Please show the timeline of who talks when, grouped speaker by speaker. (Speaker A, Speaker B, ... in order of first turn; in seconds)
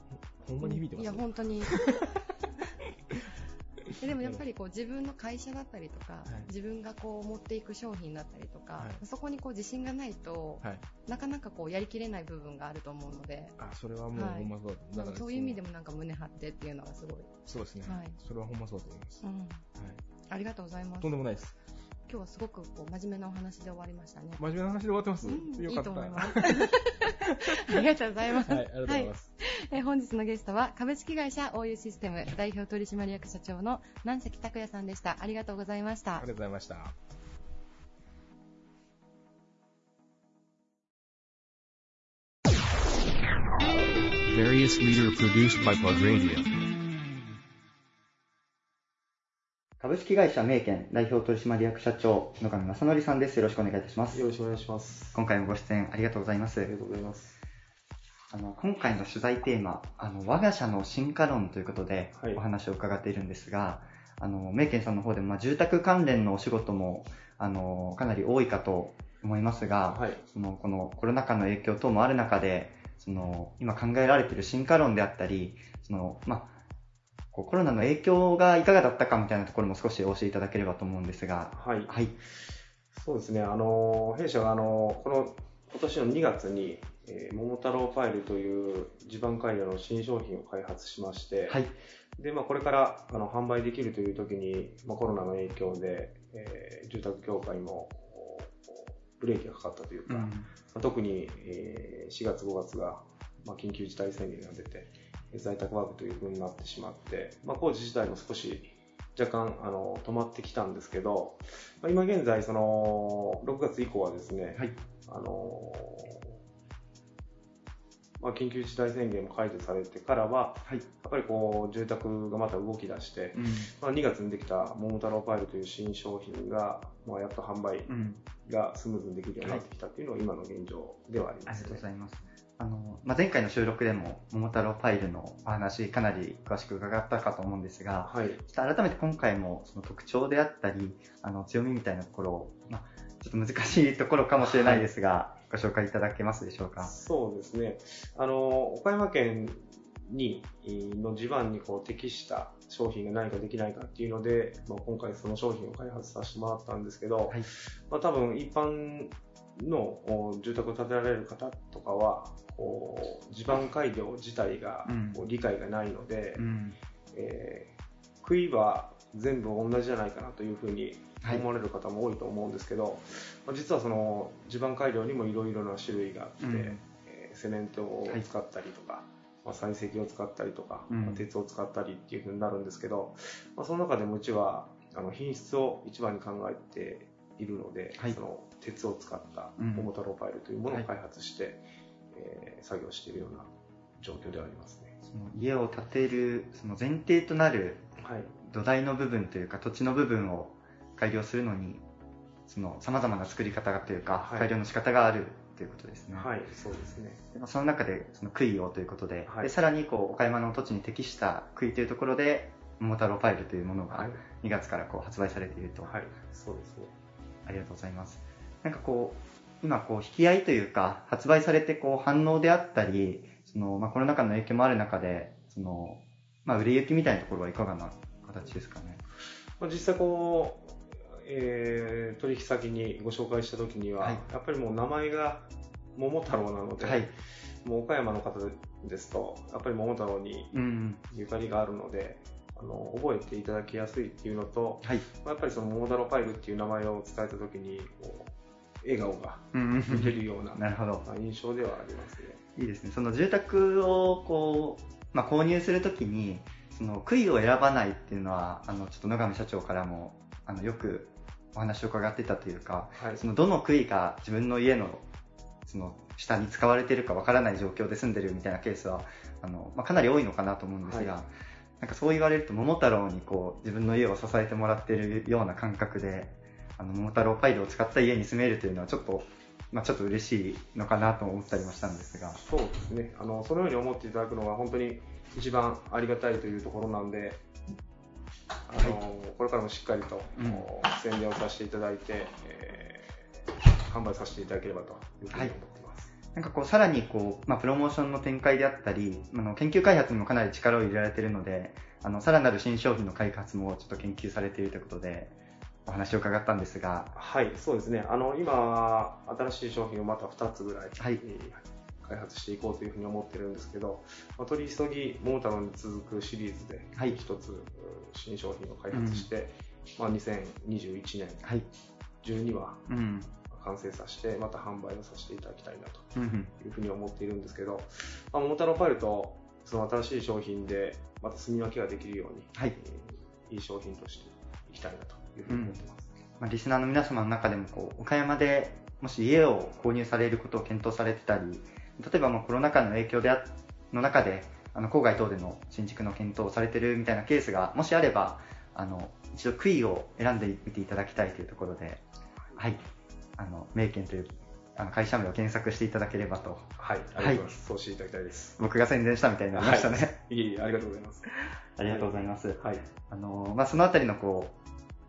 Speaker A: 0.1-1.8, 4.1-4.4, 10.6-10.9, 13.6-15.6, 17.5-19.2, 19.8-20.0, 21.0-21.6, 24.4-26.7, 28.4-29.4, 36.2-37.0
Speaker B: 0.6-2.2, 4.0-13.6, 14.1-18.2, 19.2-19.6, 20.3-21.2, 22.1-24.4, 25.2-36.3
Speaker C: 44.1-46.5
Speaker D: 49.8-54.2, 55.1-56.7, 58.3-76.5, 77.3-82.2, 100.1-100.5, 123.3-123.7, 127.9-128.2, 129.4-129.6, 131.5-146.9, 164.8-165.2, 166.4-166.8, 176.4-176.8, 180.9-181.2, 189.6-189.9, 195.0-197.9, 198.4-201.8, 202.5-216.0, 217.5-229.0, 236.8-237.1, 240.5-241.0, 249.5-251.1, 252.6-265.1, 265.7-282.4, 290.4-290.7, 296.3-305.3, 305.9-307.1, 318.9-319.3, 321.4-321.7, 322.9-323.3, 326.1-326.5, 335.5-335.8, 336.4-352.0, 352.6-352.8, 353.4-357.5, 358.6-360.2, 361.8-364.5
Speaker E: 54.1-55.2, 56.6-57.4, 62.2-62.4, 69.9-70.2, 81.5-81.9, 82.9-91.6, 92.2-116.3, 118.2-131.9, 138.0-138.4, 144.4-144.9, 146.8-166.5, 167.1-194.9, 198.0-198.3, 204.2-204.5, 206.2-207.2, 209.3-209.5, 213.9-214.2, 215.8-216.9, 229.6-237.1, 237.6-252.4, 263.0-263.2, 270.9-271.1, 282.4-287.4, 288.7-293.1, 293.9-296.1, 307.1-321.6, 322.2-336.1, 356.8-358.6, 359.6-361.3, 361.9-362.8